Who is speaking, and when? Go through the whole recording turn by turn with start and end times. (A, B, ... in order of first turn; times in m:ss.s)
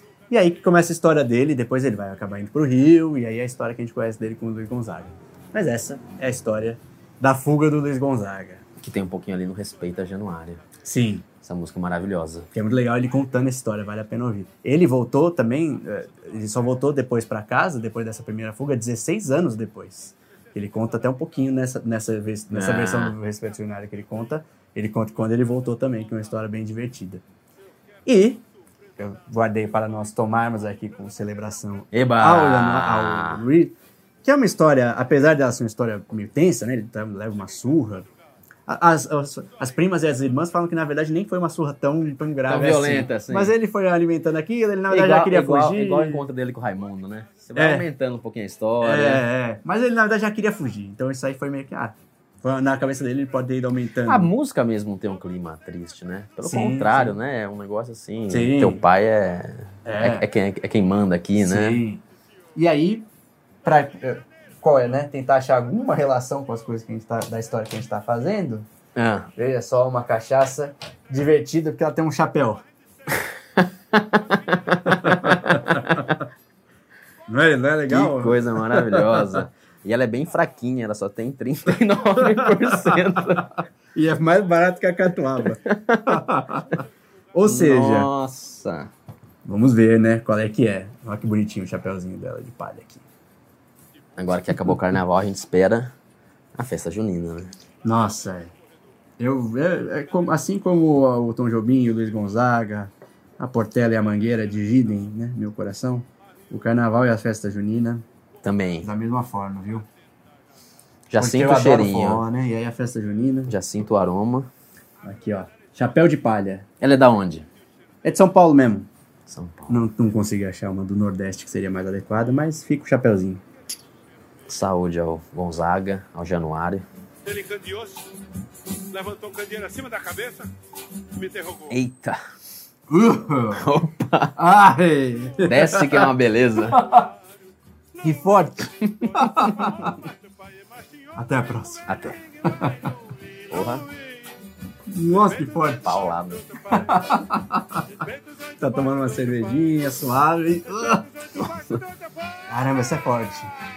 0:00.3-0:08.6 A
0:08.8-0:10.6 B
0:10.8-0:11.3 A
0:11.4-0:12.5 B
0:12.5-0:27.2 A
0:22.5-0:23.2 B
0:28.1-0:28.4 A
0:29.0-0:38.1 A
0:31.9-0:33.4 B
0:38.7-0:46.3 A
0:42.5-0:43.6 B
0:44.9-0:49.2 B
0:47.6-0:47.9 A
0:48.8-0:54.3 A
0:54.1-1:01.8 B
0:56.4-0:57.2 A
0:58.3-0:58.8 A
0:59.8-1:00.3 A
1:01.4-1:02.0 A
1:02.6-1:03.1 A
1:03.6-1:08.7 A
1:09.0-1:09.3 B
1:09.4-1:12.6 A
1:13.1-1:16.1 B
1:15.0-1:16.2 A
1:17.3-1:19.4 A
1:17.9-1:23.5 B
1:22.2-1:23.0 A
1:24.0-1:26.8 A
1:25.7-1:26.2 B
1:27.3-1:28.1 A
1:27.4-1:28.9 B
1:29.4-1:33.1 A
1:34.2-1:35.9 B
1:36.6-1:37.5 B
1:37.8-1:38.5 A
1:39.2-1:48.0 A
1:48.4-1:48.9 B
1:48.8-1:49.9 A
1:51.1-1:52.2 B
1:51.2-1:53.6 A
1:53.5-1:54.5 B
1:55.0-1:56.7 A
1:56.8-1:57.5 B
1:58.0-1:58.9 A
1:59.3-1:59.8 B
1:59.7-2:03.4 A
2:04.5-2:06.8 B
2:07.3-2:08.1 C
2:08.9-2:10.5 C
2:11.1-2:11.7 C
2:11.7-2:12.2 B
2:12.9-2:13.7 A
2:13.5-2:14.4 B
2:14.4-2:16.1 A
2:15.4-2:16.9 B
2:16.7-2:17.1 A
2:18.0-2:20.0 A
2:18.7-2:19.9 B
2:21.2-2:21.9 A
2:21.9-2:22.2 B
2:22.4-2:22.9 A
2:23.5-2:23.9 B
2:24.9-2:26.0 A
2:25.8-2:26.7 B
2:26.7-2:27.9 A
2:28.6-2:31.1 A
2:31.4-2:31.8 B
2:32.5-2:33.5 A